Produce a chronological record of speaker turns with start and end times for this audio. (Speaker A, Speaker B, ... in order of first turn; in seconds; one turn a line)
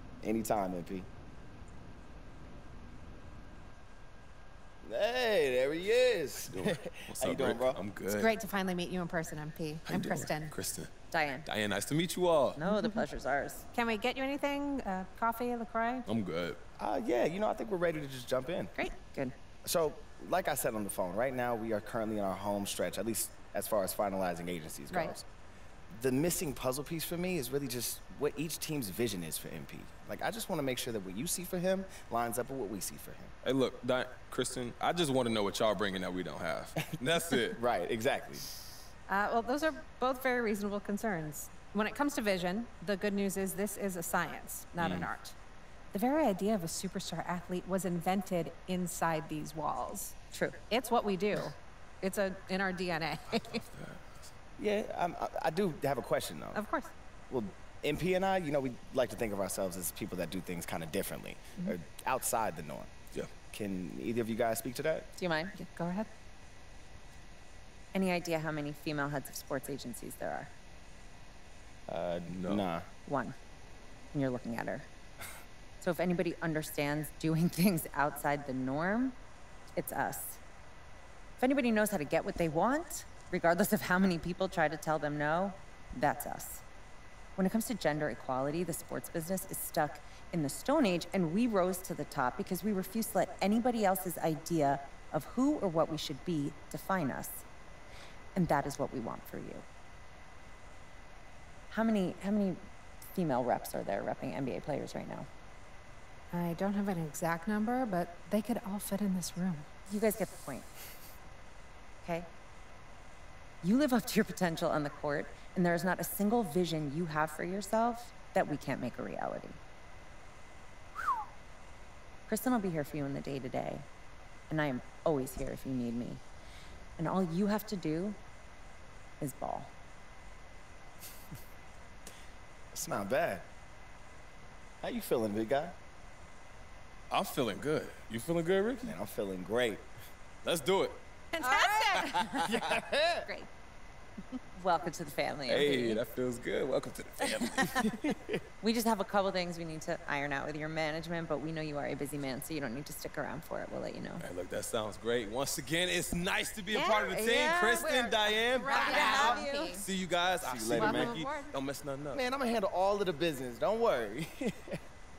Speaker A: 0.2-1.1
Speaker A: 4.8-7.8
Speaker B: 6.5-8.4
Speaker C: 8.1-10.5
Speaker B: 9.9-10.9
Speaker D: 11.1-11.5
Speaker B: 11.4-12.6
Speaker D: 12.6-13.6
Speaker C: 12.7-13.0
Speaker C: 13.7-16.1
Speaker B: 16.1-16.6
Speaker A: 16.8-18.7
Speaker D: 18.8-19.3
Speaker A: 19.6-25.2
Speaker A: 25.9-33.3
Speaker B: 33.4-37.6
Speaker A: 37.5-38.5
Speaker C: 39.1-45.3
Speaker B: 44.8-45.1
Speaker C: 45.9-50.2
Speaker D: 50.3-50.7
Speaker C: 50.7-53.6
Speaker B: 53.4-54.3
Speaker A: 54.6-56.6
Speaker C: 56.5-56.9
Speaker A: 57.3-62.9
Speaker A: 63.5-65.1
Speaker D: 65.2-65.6
Speaker C: 65.5-66.1
Speaker D: 67.9-70.5
Speaker A: 71.9-72.9
Speaker B: 72.3-72.6
Speaker D: 73.1-73.3
Speaker D: 74.1-74.9
Speaker D: 75.8-79.2
Speaker D: 79.8-80.4
Speaker D: 81.4-86.6
Speaker D: 87.4-97.4
Speaker D: 98.3-99.7
Speaker D: 101.7-102.6
Speaker D: 103.1-105.3
Speaker C: 106.3-109.7
Speaker D: 109.9-110.7
Speaker D: 113.6-119.6
Speaker D: 122.3-123.9
Speaker D: 124.5-126.2
Speaker D: 127.0-128.2
Speaker D: 129.2-129.7
Speaker A: 132.7-133.4
Speaker A: 134.8-135.7
Speaker B: 137.1-138.9
Speaker A: 138.8-139.8
Speaker B: 140.4-141.0
Speaker C: 141.3-143.5
Speaker D: 141.5-141.8
Speaker A: 142.4-143.3
Speaker D: 144.6-146.0
Speaker B: 145.5-147.9
Speaker D: 147.2-147.8
Speaker A: 147.9-148.3
Speaker D: 148.6-154.2
Speaker B: 154.2-162.2
Speaker C: 156.7-159.8
Speaker D: 157.1-159.8
Speaker A: 158.7-159.4
Speaker A: 160.4-161.2
Speaker C: 160.7-161.5
Speaker A: 162.1-164.8